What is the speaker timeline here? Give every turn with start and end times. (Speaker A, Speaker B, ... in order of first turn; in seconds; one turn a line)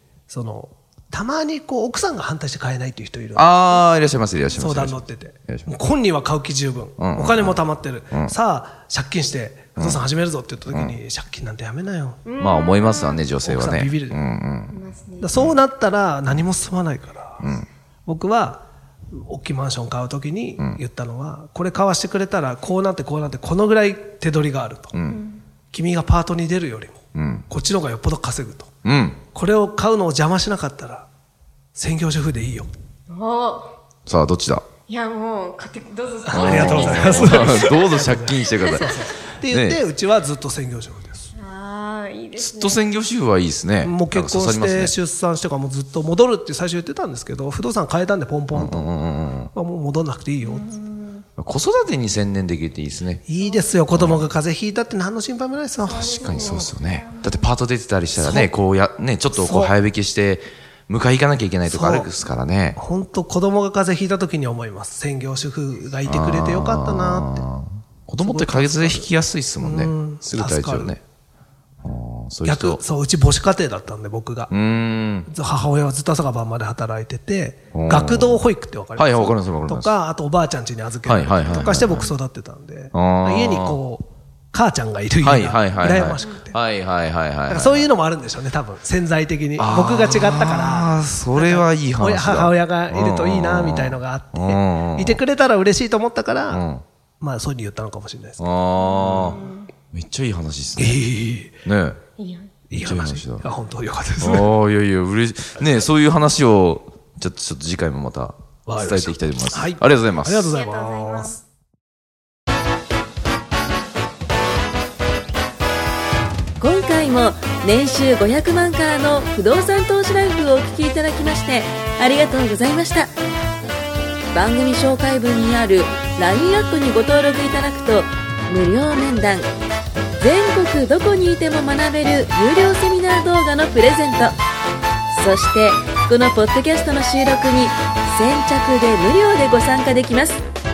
Speaker A: 0.3-3.9
Speaker B: 3.4-5.7
Speaker A: 4.6-12.3
Speaker B: 7.0-7.6
Speaker B: 10.7-11.0
Speaker C: 12.3-13.2
Speaker B: 12.4-14.8
Speaker A: 13.4-14.2
Speaker C: 14.7-15.4
Speaker A: 15.2-17.5
Speaker B: 17.4-17.7
Speaker A: 18.1-25.0
Speaker B: 24.9-25.2
Speaker C: 25.1-25.4
Speaker A: 25.7-28.7
Speaker B: 27.1-27.5
Speaker B: 28.9-29.2
Speaker A: 29.3-31.1
Speaker A: 31.7-32.7
Speaker C: 33.1-33.7
Speaker B: 34.1-34.6
Speaker C: 34.9-37.8
Speaker A: 36.2-41.3
Speaker B: 36.3-39.8
Speaker C: 38.4-39.0
Speaker C: 41.4-42.9
Speaker B: 42.4-44.9
Speaker A: 43.8-50.7
Speaker B: 48.5-49.5
Speaker C: 50.4-51.3
Speaker B: 51.4-53.2
Speaker A: 53.3-56.4
Speaker C: 53.4-53.8
Speaker B: 53.9-54.2
Speaker C: 55.8-57.4
Speaker B: 56.0-62.8
Speaker A: 58.1-58.5
Speaker A: 59.3-59.8
Speaker A: 61.7-62.1
Speaker A: 62.8-67.5
Speaker B: 66.0-71.0
Speaker A: 68.2-69.1
Speaker A: 69.6-71.0
Speaker B: 71.8-72.8
Speaker A: 72.5-74.5
Speaker B: 74.5-75.3
Speaker A: 75.2-86.6
Speaker B: 77.7-78.4
Speaker B: 79.0-79.9
Speaker B: 81.0-82.1
Speaker C: 81.5-82.1
Speaker B: 82.9-83.8
Speaker B: 85.2-87.9
Speaker A: 87.5-96.7
Speaker B: 89.6-95.2
Speaker B: 96.5-96.8
Speaker A: 97.2-99.4
Speaker B: 98.4-101.1
Speaker C: 98.8-99.7
Speaker A: 100.8-101.6
Speaker B: 101.7-102.0
Speaker C: 102.2-102.5
Speaker A: 102.7-104.5
Speaker B: 102.8-103.5
Speaker B: 104.2-110.5
Speaker A: 108.7-111.4
Speaker C: 110.5-111.4
Speaker D: 116.6-123.1
Speaker D: 124.3-129.5
Speaker D: 130.2-134.4
Speaker D: 135.1-140.4